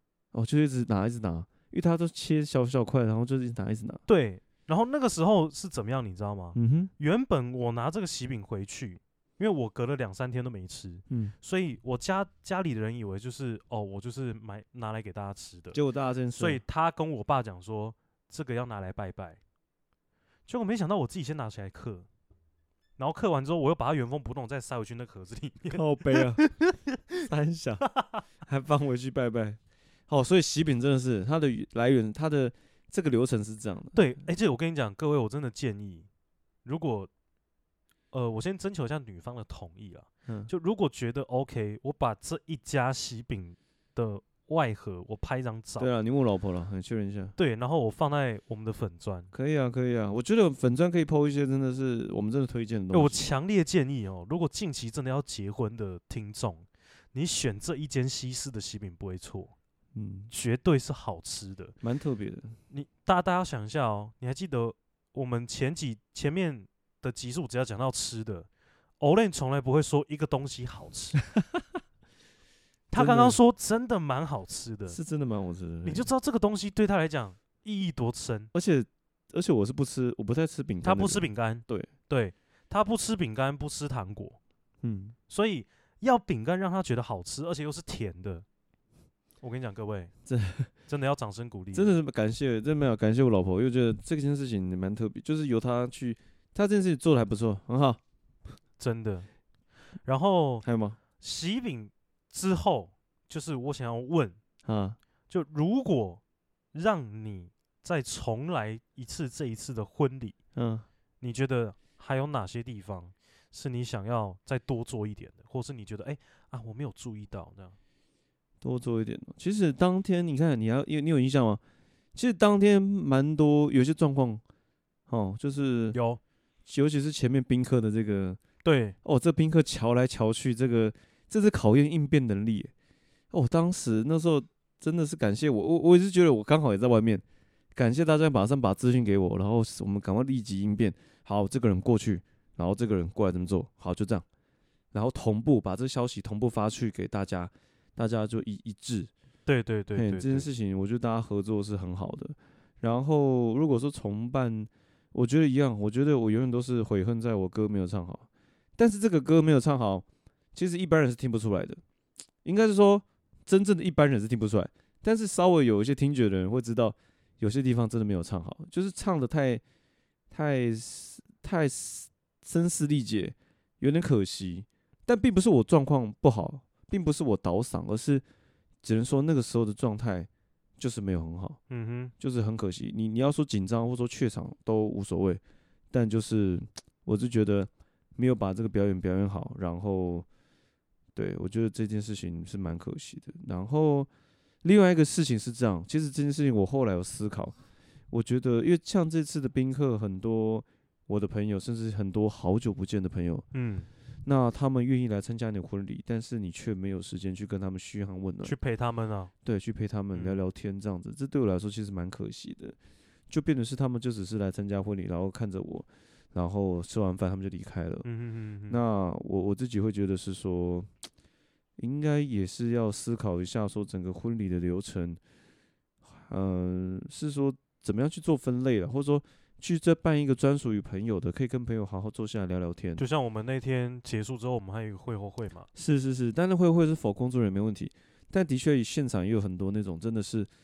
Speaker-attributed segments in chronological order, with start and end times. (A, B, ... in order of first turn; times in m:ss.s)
0:00.3-0:04.0 A
0:04.1-0:15.8 B
0:06.6-0:06.9 A
0:15.7-0:16.6 A
0:16.4-0:19.4 B
0:20.5-0:22.1 B
0:23.0-0:27.0 B
0:25.7-0:26.4 A
0:27.2-0:27.9 A
0:28.4-0:34.0 A
0:33.9-0:36.1 B
0:36.6-0:37.1 B
0:38.1-0:45.9 B
0:45.8-0:47.4 A
0:47.4-0:49.3 B
0:49.3-0:53.3 A
0:52.9-0:59.5 B
1:00.0-1:00.3 A
1:00.3-1:01.8 B
1:01.8-1:02.6 A
1:02.7-1:08.5 B
1:09.0-1:11.2 B
1:11.3-1:11.6 A
1:12.9-1:15.0 B
1:13.0-1:13.4 A
1:14.9-1:16.1 A
1:15.8-1:18.5 B
1:18.5-1:21.9 A
1:20.8-1:24.4 B
1:24.8-1:25.2 A
1:25.3-1:28.4 B
1:29.4-1:30.1 B
1:30.3-1:30.7 A
1:30.9-1:31.9 B
1:31.7-1:38.0 A
1:38.8-1:39.3 B
1:40.0-1:40.6 B
1:40.6-1:41.0 A
1:41.2-1:44.4 B
1:44.6-1:45.0 A
1:45.3-1:46.2 B
1:46.7-1:50.4 B
1:50.6-1:50.9 A
1:51.2-1:57.8 B
1:58.6-2:01.6 A
2:02.2-2:04.4 A
2:05.1-2:06.0 A
2:05.9-2:06.2 B
2:06.7-2:08.4 A
2:08.6-2:09.0 B
2:09.0-2:12.7 A
2:13.3-2:17.2 A
2:17.8-2:24.3 A
2:24.9-2:29.1 A
2:29.5-2:30.5 B
2:30.0-2:38.3 A
2:38.8-2:41.8 A
2:42.4-2:49.6 A
2:50.3-2:58.2 A
2:58.8-3:01.6 A
3:01.7-3:02.1 B
3:02.2-3:05.4 A
3:05.9-3:10.3 A
3:11.2-3:14.1 A
3:14.6-3:17.6 A
3:18.1-3:23.5 A
3:23.5-3:23.9 B
3:24.2-3:28.6 A
3:28.4-3:29.3 B
3:29.4-3:32.8 A
3:30.1-3:30.4 B
3:33.3-3:38.1 A
3:38.0-3:38.8 B
3:38.7-3:40.9 A
3:41.8-3:45.2 A
3:46.1-3:53.0 A
3:53.0-3:55.7 B
3:55.8-4:00.5 A